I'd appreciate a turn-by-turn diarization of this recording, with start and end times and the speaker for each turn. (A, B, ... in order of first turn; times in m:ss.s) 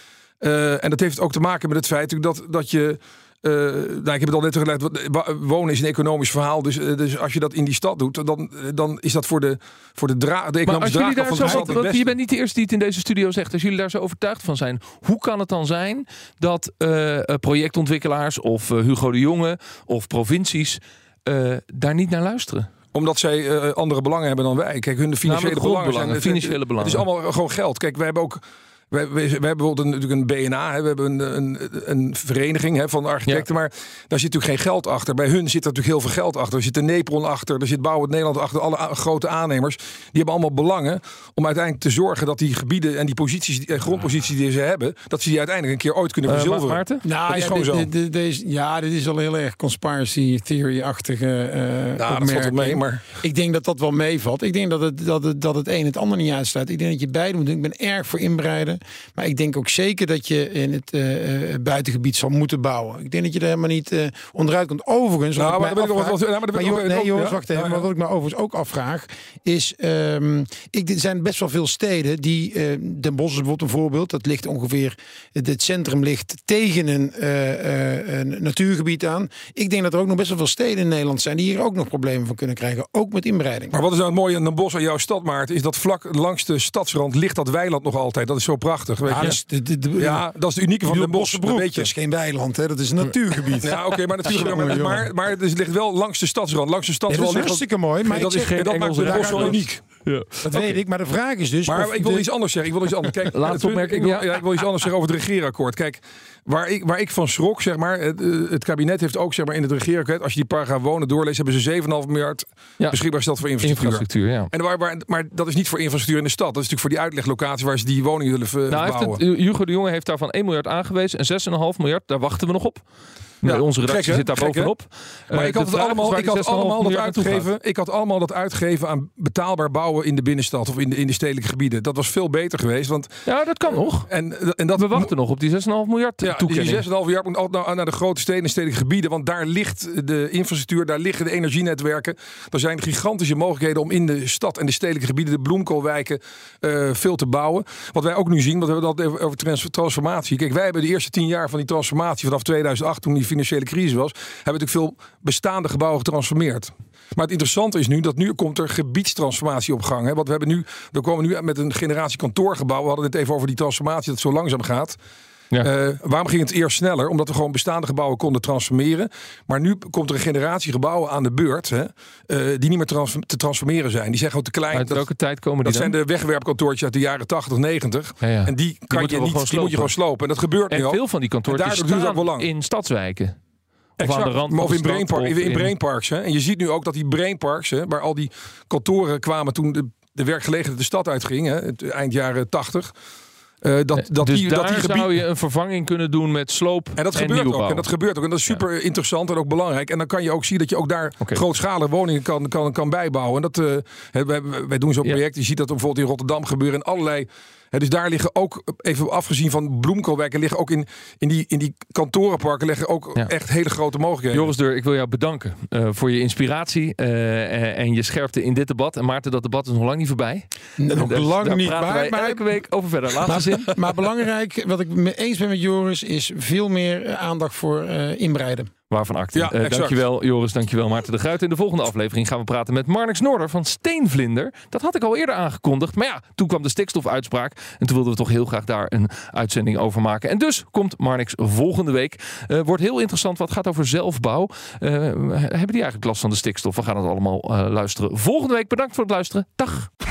0:00.4-0:12.0 A
0:10.6-0:22.7 B
0:11.4-0:11.7 C
0:22.9-0:47.9 A
0:25.2-0:27.0 B
0:46.3-0:47.0 B
0:47.0-1:23.8 C
0:52.0-0:53.0 A
1:05.4-1:07.9 A
1:23.7-1:29.4 A
1:29.1-1:30.3 C
1:30.0-1:31.9 A
1:30.8-1:35.1 C
1:33.6-1:39.8 A
1:37.1-1:39.7 C
1:38.1-1:40.8 B
1:40.4-1:42.3 C
1:41.7-1:59.2 A
1:43.3-1:44.3 B
1:53.6-1:54.5 B
1:58.7-2:02.8 B
2:03.4-2:07.5 B
2:03.4-2:04.7 A
2:05.3-2:13.2 A
2:13.2-2:14.1 B
2:14.0-2:15.1 A
2:14.8-2:16.8 B
2:16.2-2:45.0 A
2:45.6-2:55.0 A
2:54.7-2:55.9 B
2:55.6-3:02.5 A
2:58.2-2:59.9 B
3:00.7-3:03.4 B
3:04.0-3:05.7 B
3:04.0-3:12.9 A
3:13.6-3:15.1 A
3:14.0-3:17.9 B
3:17.0-3:34.5 A
3:34.3-3:43.7 B
3:40.8-3:42.5 C
3:43.2-3:48.7 C
3:48.9-4:09.9 B
3:49.3-3:50.0 A